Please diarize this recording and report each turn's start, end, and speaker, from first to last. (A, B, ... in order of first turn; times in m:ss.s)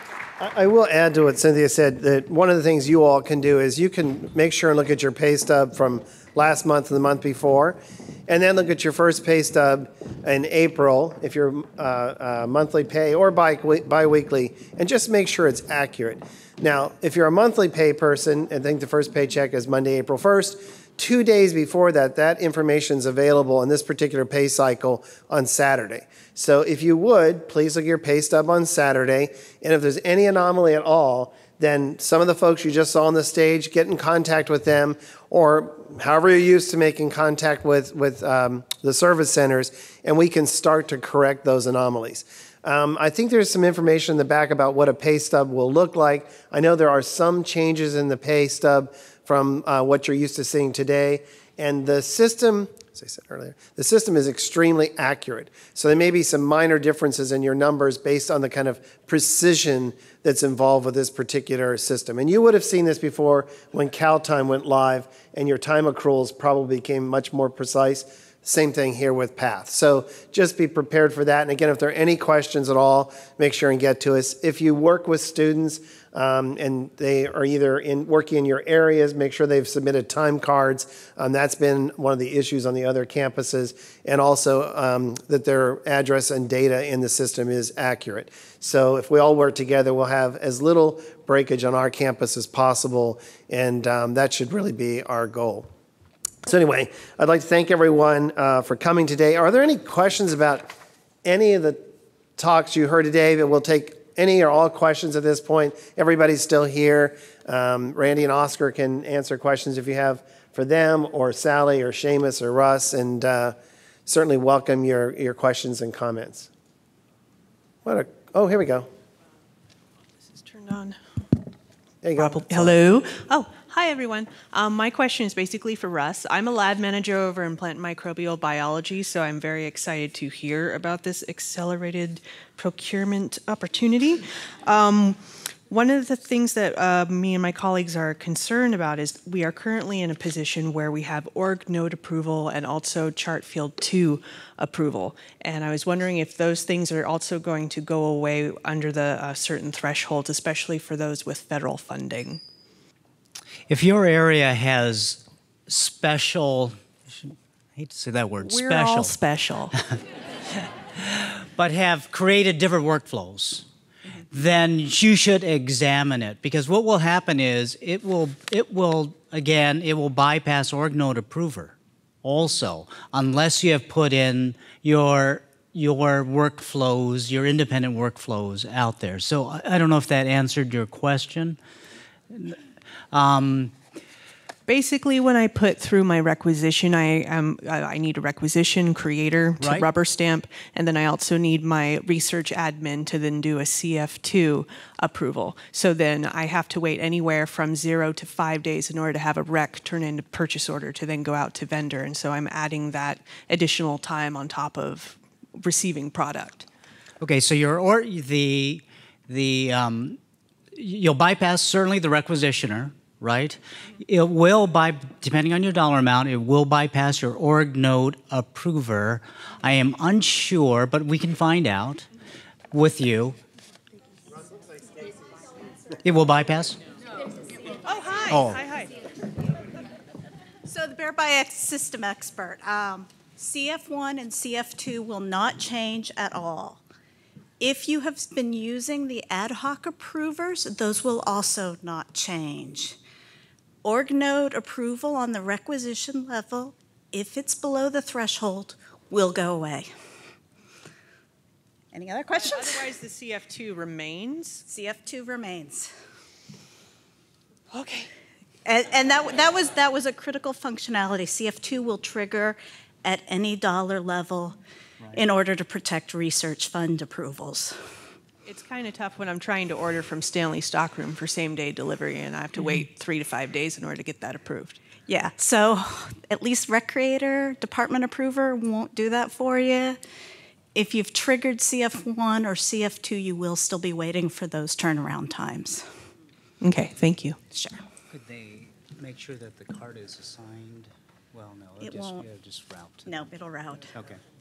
0:00.4-1:35.7 A
1:36.5-1:40.7 A
1:41.2-1:41.8 A
1:42.4-1:53.6 A
1:54.1-1:56.5 A
1:57.8-1:58.9 A
2:00.3-2:01.0 B
2:02.0-2:02.8 A
2:02.2-2:15.2 B
2:15.7-2:32.4 B
2:33.7-2:39.2 C
2:38.4-2:39.7 B
2:39.7-2:40.0 C
2:41.0-2:43.7 C
2:44.3-3:01.6 C
3:02.3-3:02.6 C
3:03.1-3:03.7 C
3:04.7-3:26.7 B
3:09.6-3:09.9 C
3:27.2-3:30.2 C
3:30.8-3:42.1 C
3:42.7-3:43.4 C
3:46.0-3:46.8 C
3:47.9-3:48.9 B
3:48.3-3:48.6 C
3:50.7-3:56.8 D
3:57.6-4:03.0 D
4:03.8-4:09.9 D
4:11.9-4:12.9 D
4:12.4-4:14.6 B
4:14.7-4:15.9 D
4:17.7-4:18.1 B
4:18.7-4:24.6 D
4:25.1-4:27.8 D
4:28.5-4:34.8 B
4:35.1-4:40.0 D
4:40.8-4:45.8 D
4:46.6-4:47.4 B
4:48.1-4:53.1 C
4:51.8-4:52.2 D
4:53.1-4:53.9 D
4:53.9-4:54.2 C